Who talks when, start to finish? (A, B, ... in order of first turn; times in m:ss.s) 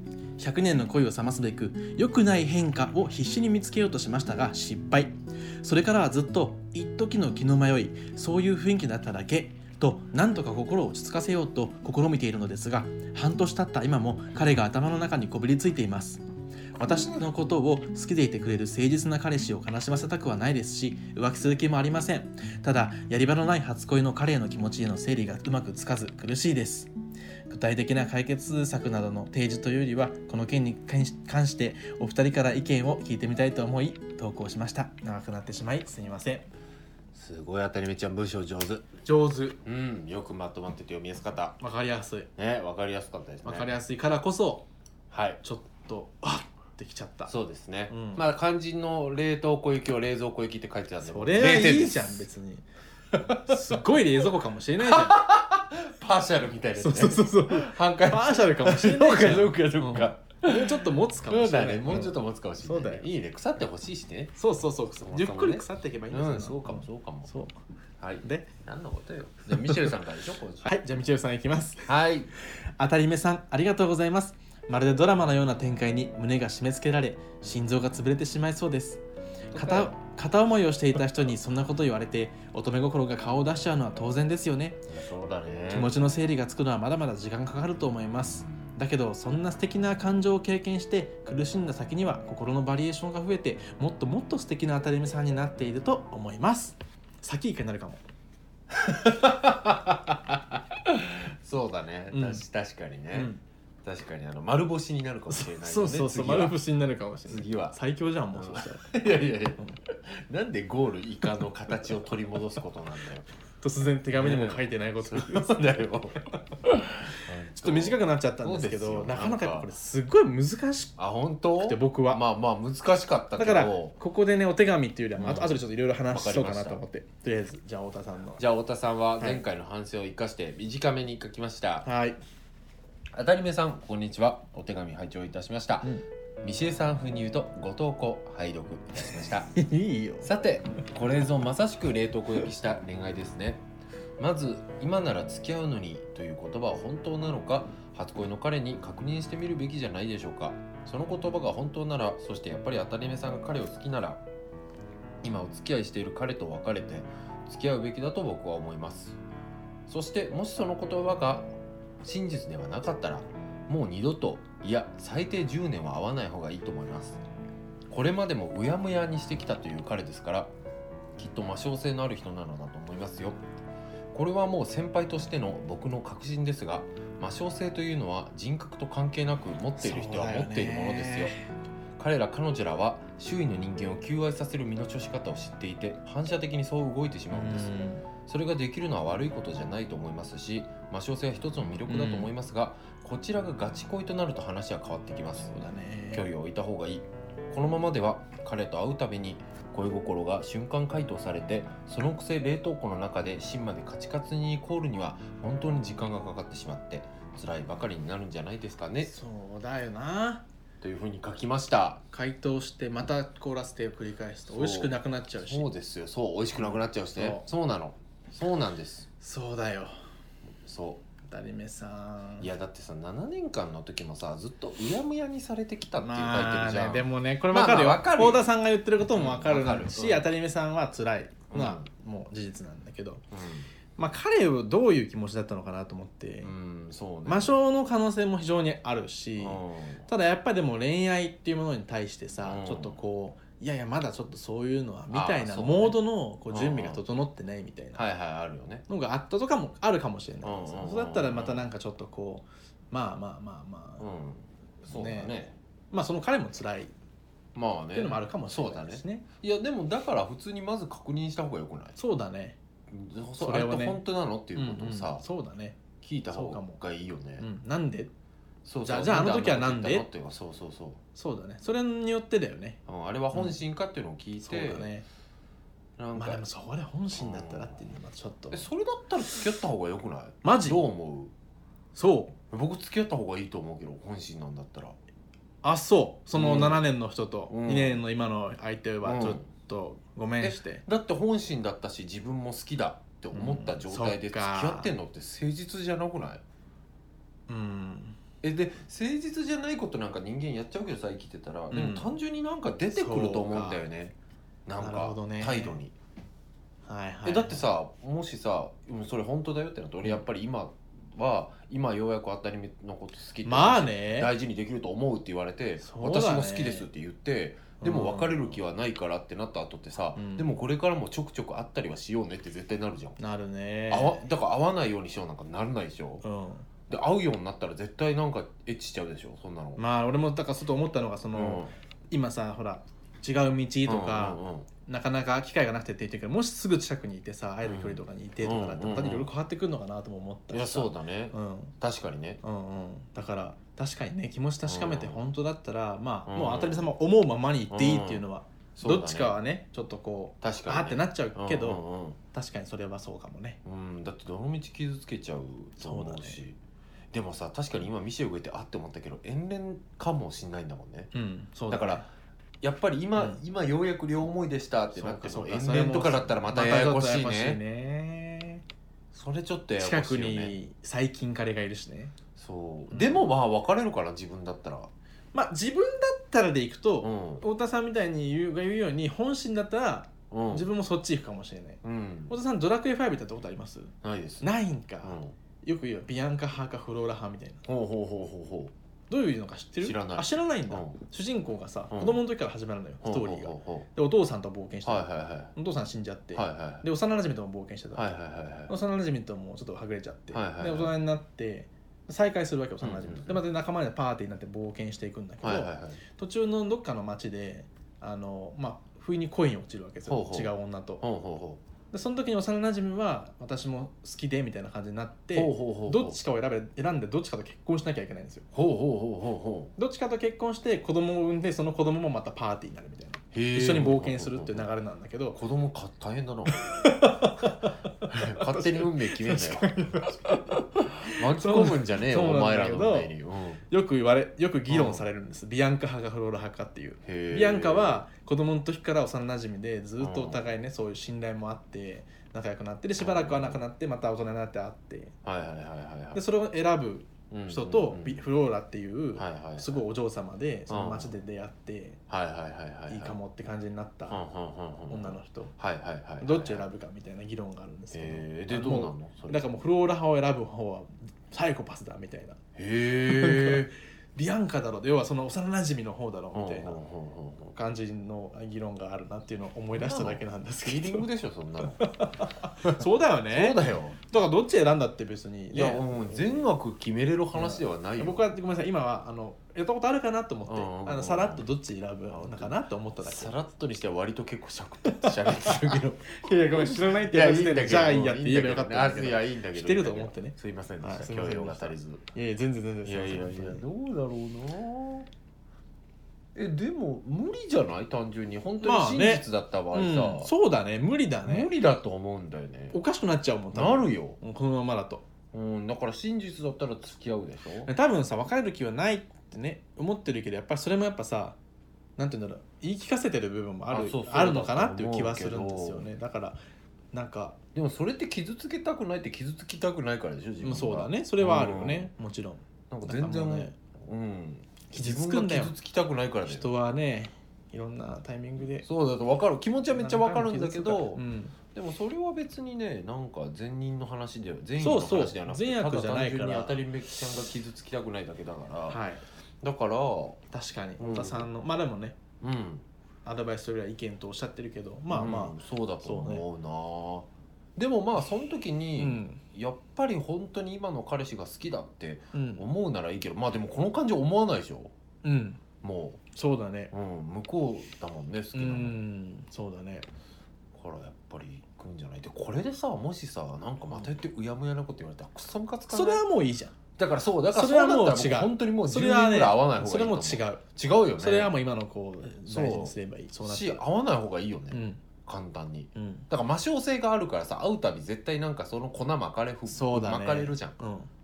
0:00.4-0:16.2 A
0:16.8-0:26.9 A
0:16.8-0:17.2 B
0:27.5-0:36.5 A
0:37.1-0:38.9 B
0:39.0-0:39.6 A
0:39.6-0:41.6 B
0:41.6-0:42.3 A
0:42.4-0:43.7 B
0:43.4-0:44.7 A
0:45.1-0:45.4 B
0:45.4-0:47.3 A
0:47.3-0:52.2 B
0:47.9-0:48.2 A
0:51.0-0:52.6 A
0:53.1-0:53.6 B
0:53.2-0:55.2 A
0:54.8-1:04.4 B
0:56.8-1:03.1 A
1:04.4-1:07.6 A
1:05.0-1:07.3 B
1:08.0-1:10.8 B
1:08.2-1:08.5 A
1:09.6-1:09.9 A
1:10.6-1:11.9 A
1:11.9-1:12.3 B
1:12.8-1:19.0 A
1:19.5-1:20.0 B
1:19.5-1:24.8 A
1:24.9-1:25.9 B
1:25.7-1:38.0 A
1:28.4-1:28.7 B
1:38.7-1:43.3 B
1:42.1-1:42.4 A
1:43.1-1:43.4 A
1:43.8-1:46.6 B
1:45.3-1:48.9 A
1:47.3-1:47.8 B
1:48.3-1:53.2 B
1:53.6-1:55.7 A
1:54.2-1:59.7 B
1:57.5-2:01.0 A
2:01.0-2:03.9 B
2:01.6-2:02.2 A
2:03.4-2:08.4 A
2:05.2-2:06.8 B
2:08.4-2:11.9 B
2:11.8-2:12.2 A
2:13.1-2:15.9 B
2:16.4-2:19.5 B
2:19.5-2:20.3 A
2:20.2-2:23.6 B
2:24.2-2:34.2 B
2:35.2-2:39.2 B
2:39.9-2:41.5 B
2:42.0-2:47.2 B
2:47.9-2:50.5 B
2:51.2-2:53.4 B
2:54.1-3:01.4 B
2:59.8-3:01.4 A
3:02.0-3:15.6 B
3:07.3-3:08.1 A
3:11.9-3:12.3 A
3:15.4-3:16.3 A
3:16.1-3:29.1 B
3:29.0-3:30.4 A
3:30.8-3:32.0 B
3:32.1-3:35.7 A
3:34.5-3:39.1 B
3:36.6-3:37.5 A
3:39.2-3:39.9 A
3:40.6-3:41.0 B
3:41.2-3:42.5 A
3:42.4-3:48.5 B
3:46.0-3:53.2 A
3:49.1-3:50.3 B
3:51.5-3:51.9 B
3:53.3-3:53.7 B
3:54.0-3:56.5 A
3:56.4-3:57.6 B
3:57.2-4:08.0 A
3:59.4-4:00.1 B
4:02.4-4:03.0 B
4:05.1-4:07.0 B
4:08.0-4:08.8 B
4:08.9-4:14.1 A
4:10.4-4:11.7 B
4:14.0-4:15.6 B
4:14.8-4:15.3 A
4:15.9-4:16.9 A
4:17.6-4:22.0 B
4:17.9-4:19.2 A
4:22.0-4:22.6 A
4:22.9-4:25.2 B
4:23.4-4:24.0 A
4:24.6-4:26.8 A
4:26.0-4:27.5 B
4:27.4-4:28.1 A
4:28.6-4:31.0 B
4:28.8-4:30.1 A
4:31.1-4:32.8 A
4:32.9-4:34.9 B
4:34.4-4:35.1 A
4:36.0-4:36.4 B
4:36.1-4:38.6 A
4:37.1-4:37.8 B
4:38.5-4:41.3 B
4:40.4-4:40.8 A
4:42.0-4:42.4 A
4:42.5-4:45.0 B
4:45.6-4:50.8 A
4:46.3-4:46.9 B
4:47.5-4:48.0 B
4:49.0-4:49.4 B
4:50.4-4:56.4 B
4:53.3-4:54.9 A
4:57.5-4:58.2 A
4:58.4-5:04.1 B
5:01.7-5:02.1 A
5:02.9-5:03.8 A
5:04.7-5:05.9 B
5:04.8-5:05.8 A
5:06.9-5:07.6 A
5:07.2-5:23.2 B
5:13.4-5:14.3 A
5:15.8-5:16.9 A
5:17.8-5:18.6 A
5:20.2-5:20.5 A
5:23.2-5:24.2 A
5:23.9-5:26.2 B
5:26.2-5:26.7 A
5:26.9-5:29.8 B
5:29.8-5:41.7 A
5:31.3-5:31.7 B
5:33.9-5:34.7 B
5:37.6-5:39.3 B
5:40.5-5:42.4 B
5:42.4-5:51.8 A
5:44.6-5:45.2 B
5:46.3-5:46.9 B
5:47.7-5:49.4 B
5:50.4-5:52.2 B
5:52.3-5:53.6 A
5:53.6-5:56.6 B
5:55.8-5:56.4 A
5:57.1-6:01.1 B
6:01.1-6:02.1 A
6:01.7-6:02.1 B
6:02.6-6:07.6 B
6:04.9-6:08.6 A
6:09.1-6:10.6 B
6:09.8-6:12.1 A
6:12.4-6:14.9 B
6:12.9-6:13.2 A
6:15.3-6:27.6 A
6:17.0-6:17.4 B
6:20.3-6:20.7 B
6:21.8-6:22.4 B
6:24.0-6:24.5 B
6:25.0-6:25.4 B
6:27.6-6:28.7 B
6:29.1-6:38.1 A
6:29.8-6:31.0 B
6:31.9-6:32.2 B
6:33.0-6:33.9 B
6:34.8-6:35.5 B
6:36.3-6:36.8 B
6:37.9-6:38.7 B
6:38.7-6:51.0 A
6:40.3-6:40.9 B
6:42.8-6:43.4 B
6:45.4-6:46.0 B
6:50.1-6:51.6 B
6:51.9-6:58.5 A
6:55.3-6:56.2 B
6:58.5-6:59.7 B
6:59.8-7:05.4 A
7:03.3-7:04.7 B
7:05.3-7:06.9 B
7:06.5-7:13.1 A
7:08.1-7:13.6 B
7:13.7-7:25.1 A
7:14.7-7:15.0 B
7:17.0-7:18.0 B
7:20.0-7:20.5 B
7:23.0-7:23.6 B
7:25.2-7:26.2 B
7:26.1-7:32.0 A
7:27.3-7:28.2 B
7:29.1-7:29.8 B
7:30.7-7:31.1 B
7:32.1-7:33.2 B
7:32.9-7:34.2 A
7:34.1-7:36.7 B
7:34.9-7:35.5 A
7:36.2-7:42.4 A
7:37.9-7:39.5 B
7:42.6-7:43.7 B
7:43.0-7:46.8 A
7:46.3-7:47.5 B
7:47.5-7:51.1 A
7:49.8-7:52.0 B
7:51.8-7:56.4 A
7:52.6-7:54.0 B
7:55.5-7:58.3 B
7:57.3-8:03.3 A
8:00.5-8:01.5 B
8:02.1-8:12.0 B
8:04.9-8:13.6 A
8:12.9-8:15.1 B
8:16.4-8:20.3 B
8:18.6-8:21.5 A
8:21.2-8:22.8 B
8:22.7-8:25.0 A
8:23.5-8:24.2 B
8:25.3-8:27.7 B
8:27.6-8:31.4 A
8:32.0-8:36.4 A
8:33.7-8:35.9 B
8:36.9-8:37.4 A
8:37.5-8:41.9 B
8:40.4-8:43.6 A
8:42.7-8:46.5 B
8:44.7-8:45.5 A
8:46.3-8:48.7 A
8:48.6-8:51.0 B
8:49.7-8:51.4 A
8:51.5-8:58.8 B
8:54.6-8:56.6 A
8:58.7-8:59.0 A
8:59.4-9:00.2 B
9:00.3-9:02.0 A
9:00.8-9:01.3 B
9:02.2-9:02.6 B
9:03.0-9:06.2 A
9:04.9-9:14.7 B
9:08.8-9:09.2 A
9:12.1-9:12.4 A
9:15.0-9:15.4 A
9:15.6-9:16.0 B
9:16.1-9:16.7 A
9:16.7-9:18.8 B
9:18.3-9:19.9 A
9:20.5-9:26.0 B
9:25.7-9:26.6 A
9:26.8-9:31.3 B
9:27.3-9:30.4 A
9:31.0-9:33.6 A
9:32.3-9:40.6 B
9:34.5-9:34.8 A
9:35.8-9:36.1 A
9:39.5-9:40.9 A